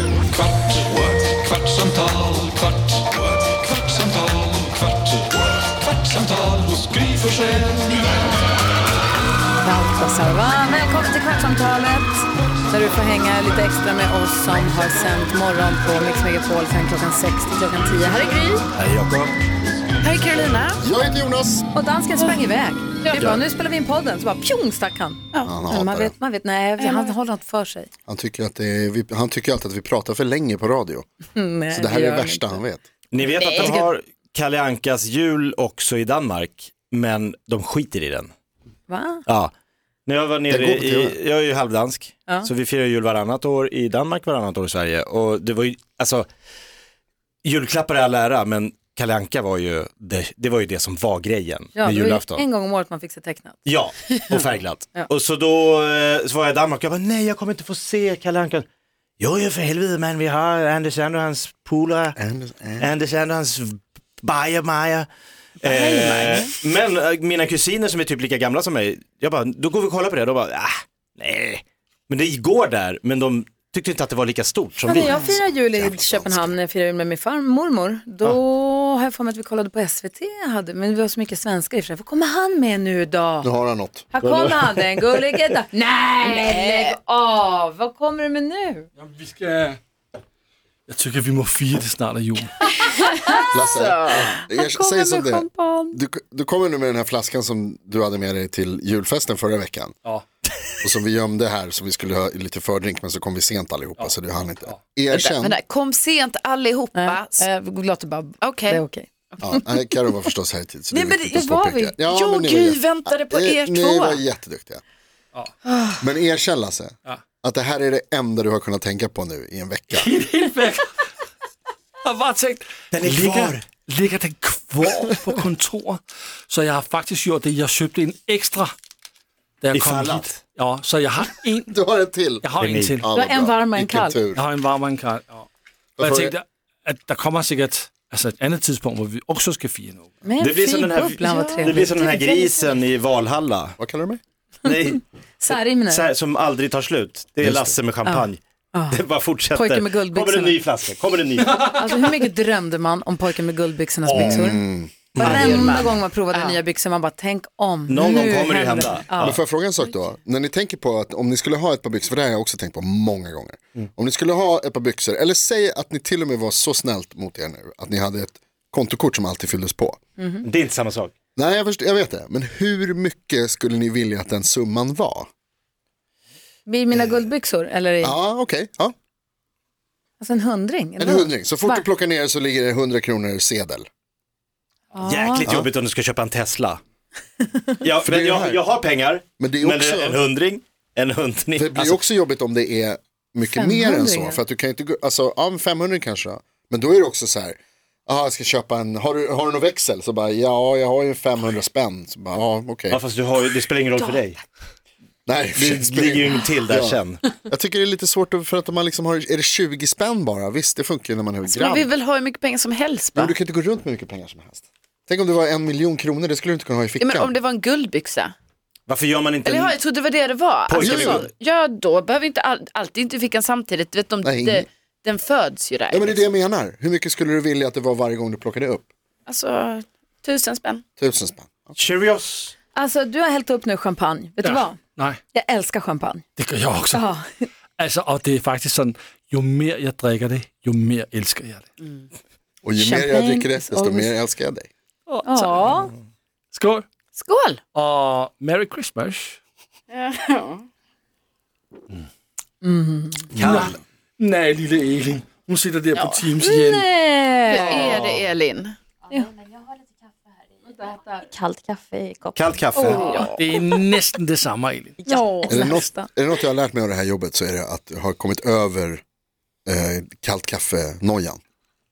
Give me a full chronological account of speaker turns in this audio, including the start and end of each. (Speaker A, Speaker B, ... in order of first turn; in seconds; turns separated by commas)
Speaker A: 0.9-5.1, Speaker A: 6.0-7.5, Speaker B: 7.5-7.9, Speaker C: 9.6-18.6, Speaker D: 18.7-19.4, Speaker E: 20.0-20.8, Speaker F: 20.8-21.7, Speaker C: 21.7-27.9, Speaker E: 23.0-23.3, Speaker F: 25.4-26.1, Speaker E: 26.8-27.1, Speaker F: 28.1-31.1, Speaker C: 31.4-32.6, Speaker F: 31.7-32.9, Speaker D: 33.1-38.3, Speaker E: 33.4-33.8, Speaker C: 33.4-33.9, Speaker C: 38.9-39.2, Speaker D: 39.3-39.5, Speaker D: 40.1-46.3, Speaker F: 40.5-41.2, Speaker D: 47.4-52.4, Speaker C: 51.8-54.3, Speaker D: 53.6-58.6, Speaker D: 59.2-62.2, Speaker F: 62.2-62.9, Speaker D: 62.8-65.1, Speaker D: 65.6-75.2, Speaker E: 65.6-66.5, Speaker C: 74.9-83.5, Speaker F: 75.0-76.6, Speaker F: 83.4-84.1, Speaker C: 84.1-88.9, Speaker D: 84.2-85.4, Speaker E: 86.2-87.0, Speaker B: 89.0-89.8, Speaker B: 90.9-92.6, Speaker E: 92.7-94.4, Speaker C: 92.9-93.5, Speaker F: 93.5-99.9, Speaker C: 94.5-96.0, Speaker F: 100.8-105.6, Speaker E: 105.1-107.5, Speaker C: 107.0-109.6, Speaker E: 108.4-108.8, Speaker F: 109.4-114.8, Speaker E: 110.9-111.3, Speaker C: 111.3-112.0, Speaker E: 112.1-114.2, Speaker E: 115.7-116.0, Speaker F: 116.0-120.1, Speaker B: 119.9-121.0, Speaker B: 122.0-128.7, Speaker D: 122.9-123.7, Speaker B: 129.6-131.7, Speaker D: 129.7-130.4, Speaker F: 131.7-134.4, Speaker B: 132.4-133.1, Speaker D: 132.6-133.0, Speaker C: 133.1-134.2, Speaker B: 134.3-135.5, Speaker F: 136.0-136.4, Speaker B: 136.0-140.1, Speaker C: 140.2-142.2, Speaker D: 140.4-143.8, Speaker E: 141.2-142.6, Speaker F: 143.8-144.2, Speaker D: 144.6-151.7, Speaker C: 145.4-146.1, Speaker F: 147.4-147.8, Speaker C: 148.1-150.6, Speaker C: 151.6-154.6, Speaker D: 154.1-154.5, Speaker F: 154.1-155.9, Speaker D: 155.2-155.5, Speaker C: 155.2-159.4, Speaker E: 155.2-156.6, Speaker D: 157.9-159.4, Speaker F: 158.0-158.3, Speaker F: 159.2-170.0, Speaker C: 170.2-170.4, Speaker D: 170.4-171.1, Speaker F: 171.4-175.3, Speaker C: 176.7-178.2, Speaker F: 178.0-178.9, Speaker C: 180.2-181.9, Speaker F: 181.0-183.9, Speaker C: 184.9-185.5, Speaker D: 185.0-186.8, Speaker C: 187.4-187.7, Speaker D: 187.8-192.0, Speaker F: 188.1-188.6, Speaker F: 189.4-190.2, Speaker F: 191.6-203.0, Speaker C: 193.5-194.4, Speaker D: 202.9-204.4, Speaker F: 205.3-211.9, Speaker D: 205.5-207.2, Speaker E: 211.5-213.4, Speaker F: 213.2-217.3, Speaker E: 217.0-218.3, Speaker D: 218.9-219.8, Speaker E: 219.4-226.2, Speaker D: 220.7-221.3, Speaker F: 220.8-221.2, Speaker F: 224.2-224.7, Speaker F: 225.9-228.9, Speaker E: 229.3-230.8, Speaker F: 231.0-231.8, Speaker D: 231.8-232.6, Speaker C: 232.7-234.8, Speaker B: 234.4-235.2, Speaker C: 235.3-236.2, Speaker B: 236.4-237.1, Speaker C: 236.9-237.2, Speaker B: 237.8-241.7, Speaker F: 242.6-244.7, Speaker C: 242.8-244.2, Speaker B: 245.1-245.8, Speaker C: 245.2-245.9, Speaker B: 246.5-246.9, Speaker E: 247.2-247.6, Speaker B: 247.7-249.4, Speaker E: 249.9-250.7, Speaker C: 252.6-253.3, Speaker F: 253.3-253.8, Speaker B: 253.4-256.9, Speaker D: 253.4-253.7, Speaker E: 255.9-256.3, Speaker C: 256.4-258.0, Speaker E: 257.5-258.8, Speaker D: 257.7-258.2, Speaker C: 259.1-259.9, Speaker C: 260.6-263.3, Speaker D: 262.4-263.2, Speaker E: 262.8-263.6, Speaker B: 263.3-265.0, Speaker C: 265.1-266.1, Speaker E: 265.1-265.6, Speaker F: 265.5-269.0, Speaker F: 269.7-271.4